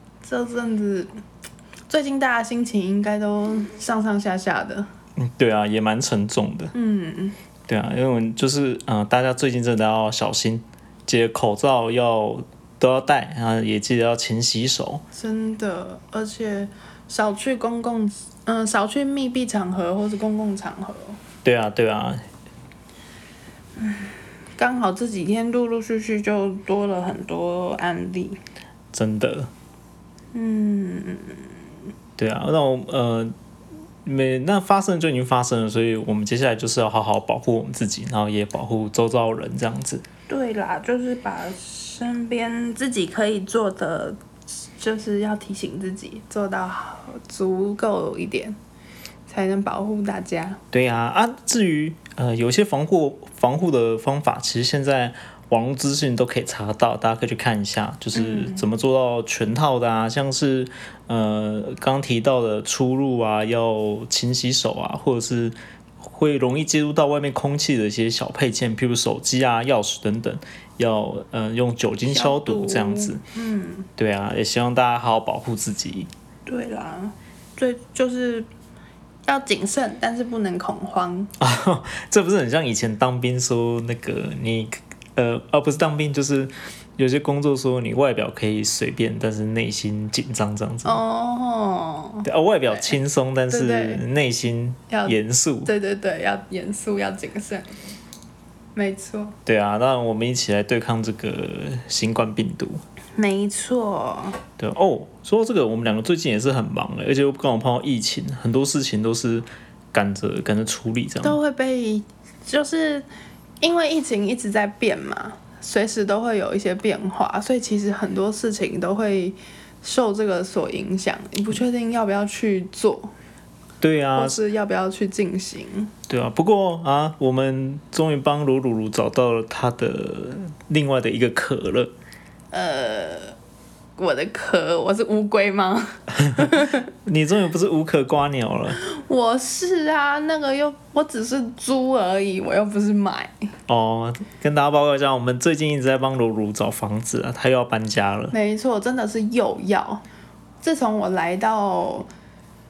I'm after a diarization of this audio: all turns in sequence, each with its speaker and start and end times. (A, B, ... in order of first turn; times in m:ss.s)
0:00.2-0:01.1 A
0:01.9-0:04.9 A
0:05.2-0:06.7 B
0:06.7-0:07.4 A
0:07.7-0:15.0 B
0:15.1-0:21.2 A
0:21.4-0:22.2 B
0:23.8-0:28.4 A
0:28.9-0:29.5 B
0:30.3-0:31.6 A
0:32.2-0:33.3 B
0:34.0-0:40.1 B
0:40.3-0:48.6 A
0:49.3-0:50.6 A
0:50.7-1:13.2 B
0:58.1-0:58.7 A
1:12.1-1:13.9 A
1:14.0-1:16.1 B
1:16.5-1:18.5 A
1:19.3-1:21.3 A
1:21.4-1:31.0 B
1:30.8-1:33.0 A
1:32.2-1:35.7 B
1:33.5-1:34.0 A
1:34.9-1:37.8 A
1:38.8-1:39.4 A
1:39.5-1:42.8 B
1:43.2-1:44.4 A
1:44.6-1:51.4 B
1:51.2-1:53.1 A
1:53.6-2:03.1 A
2:03.8-2:04.4 B
2:04.2-2:05.9 A
2:06.1-2:11.9 B
2:12.5-2:13.4 A
2:14.0-2:16.9 A
2:16.2-2:18.8 B
2:18.8-2:23.5 A
2:23.7-2:28.3 B
2:28.3-2:30.0 A
2:30.6-2:32.1 A